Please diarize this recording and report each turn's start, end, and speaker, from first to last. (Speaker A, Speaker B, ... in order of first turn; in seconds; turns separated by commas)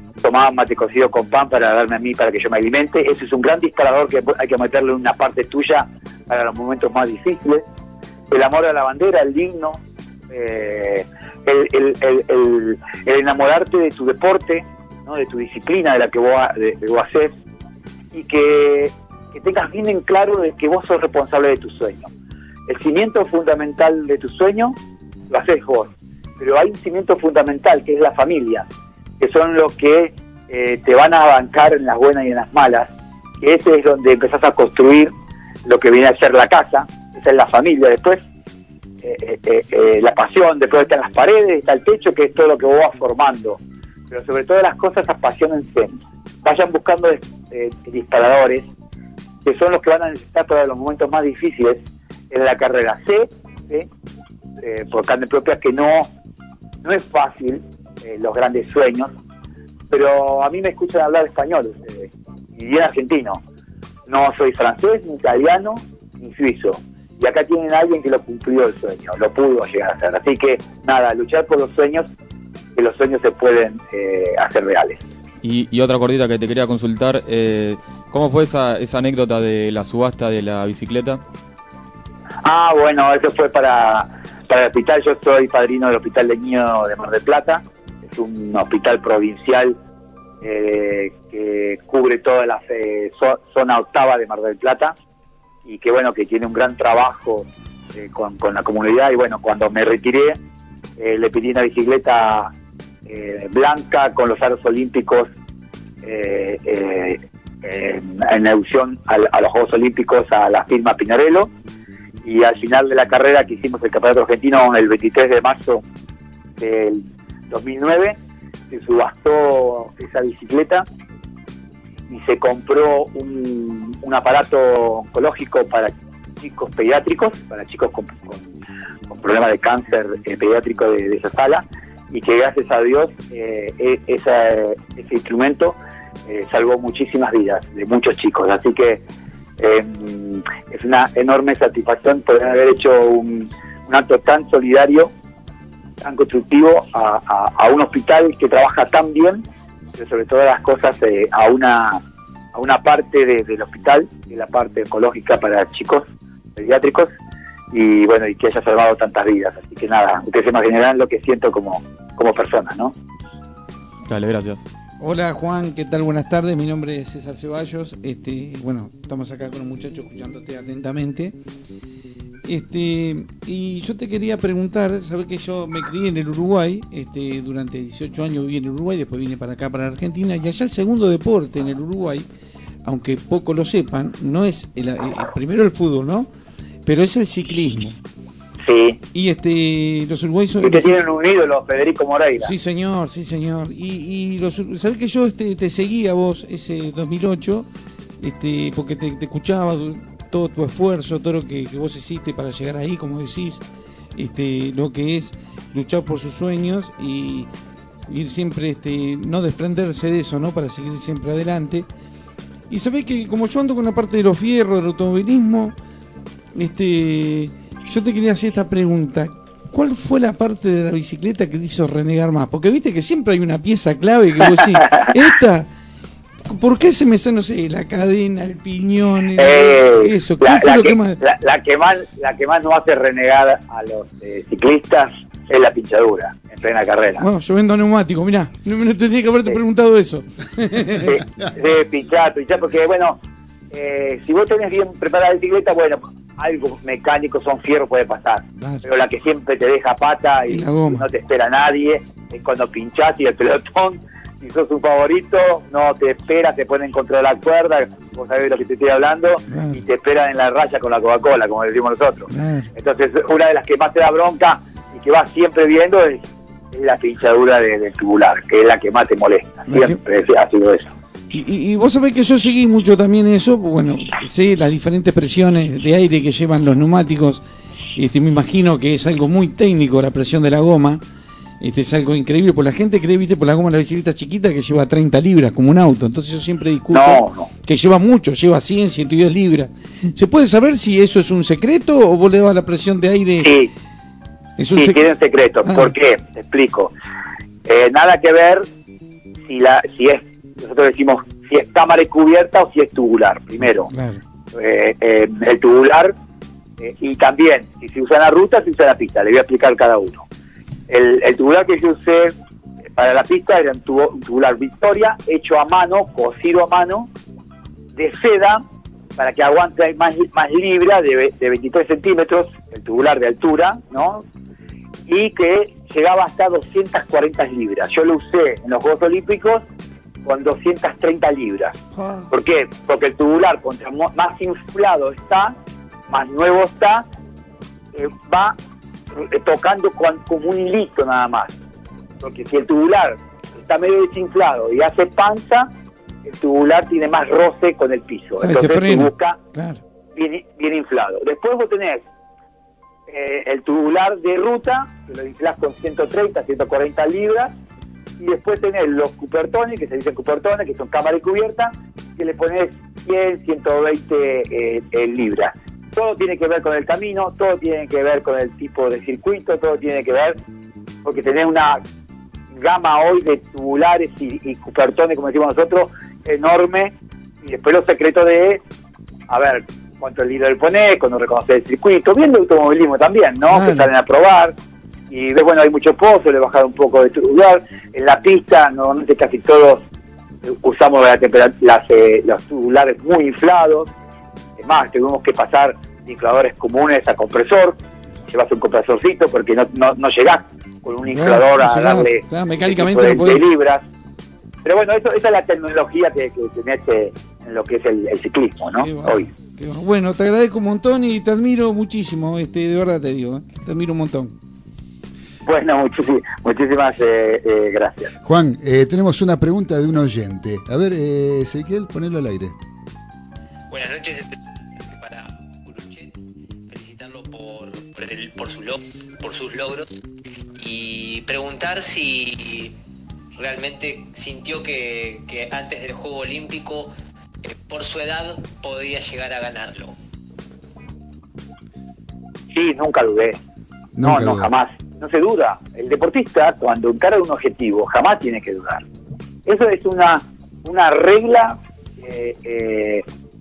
Speaker A: 0.2-7.7, Speaker A: 8.3-17.3, Speaker A: 18.1-22.1, Speaker A: 22.7-24.8, Speaker A: 25.3-28.7, Speaker A: 29.2-35.1, Speaker A: 35.6-38.2, Speaker A: 39.0-48.7, Speaker A: 49.5-53.9, Speaker A: 54.6-56.1, Speaker A: 56.8-59.1, Speaker A: 59.9-63.4, Speaker A: 64.1-72.1, Speaker A: 72.8-75.0, Speaker B: 75.4-81.2, Speaker A: 82.5-89.8, Speaker A: 90.4-95.0, Speaker A: 95.7-100.4, Speaker A: 101.0-102.5, Speaker A: 103.1-105.3, Speaker A: 106.0-111.5, Speaker A: 112.2-115.8, Speaker A: 116.6-118.2, Speaker A: 118.7-120.9, Speaker A: 122.1-128.5, Speaker A: 129.1-139.0, Speaker A: 139.6-145.1, Speaker A: 146.0-149.4, Speaker A: 150.0-152.0, Speaker A: 152.5-157.1, Speaker A: 157.7-162.9, Speaker B: 164.1-164.7, Speaker C: 165.0-171.3, Speaker C: 172.5-182.3, Speaker C: 182.8-186.3, Speaker C: 186.9-188.0, Speaker A: 188.7-189.0, Speaker C: 189.1-191.0, Speaker A: 190.6-192.5, Speaker C: 192.4-197.7, Speaker C: 198.2-203.6, Speaker C: 204.2-207.5, Speaker C: 208.1-211.9, Speaker C: 212.7-215.8, Speaker C: 216.6-225.7, Speaker C: 226.5-231.2, Speaker A: 229.4-237.2, Speaker C: 237.2-241.2, Speaker A: 241.1-243.2, Speaker A: 243.7-270.9, Speaker C: 250.5-251.1, Speaker C: 259.5-259.8, Speaker C: 262.3-262.7, Speaker C: 269.7-270.0, Speaker C: 271.3-277.4, Speaker C: 277.9-281.0, Speaker C: 281.6-293.6, Speaker A: 286.9-287.5, Speaker A: 293.4-293.7, Speaker C: 294.6-295.0, Speaker A: 294.8-296.9, Speaker C: 295.6-295.9, Speaker A: 297.6-298.6, Speaker A: 299.5-303.9, Speaker C: 303.9-304.2, Speaker A: 304.5-306.1, Speaker A: 306.8-310.2, Speaker A: 310.9-312.4, Speaker A: 313.0-317.1, Speaker A: 318.0-318.6, Speaker A: 319.2-324.2, Speaker A: 325.1-329.6, Speaker A: 330.2-335.6, Speaker C: 331.9-332.3, Speaker A: 336.1-337.1, Speaker A: 337.9-338.6, Speaker A: 339.1-341.6, Speaker A: 342.2-345.7, Speaker A: 346.2-349.4, Speaker C: 348.4-349.8, Speaker A: 350.1-352.1, Speaker A: 353.1-357.5, Speaker A: 358.2-370.4, Speaker A: 371.1-371.8, Speaker A: 372.6-378.6, Speaker A: 379.3-384.5, Speaker C: 383.5-383.9, Speaker A: 385.1-389.8, Speaker A: 390.4-393.9, Speaker A: 394.6-403.9, Speaker C: 401.1-403.5, Speaker A: 404.6-409.3, Speaker C: 408.8-414.3, Speaker A: 415.5-418.1, Speaker D: 418.2-422.6, Speaker E: 423.7-426.2, Speaker E: 426.7-429.9, Speaker E: 430.6-432.8, Speaker E: 433.4-436.9, Speaker E: 437.4-440.0, Speaker A: 442.5-443.4, Speaker D: 444.0-444.5, Speaker A: 444.0-448.8, Speaker A: 449.5-453.1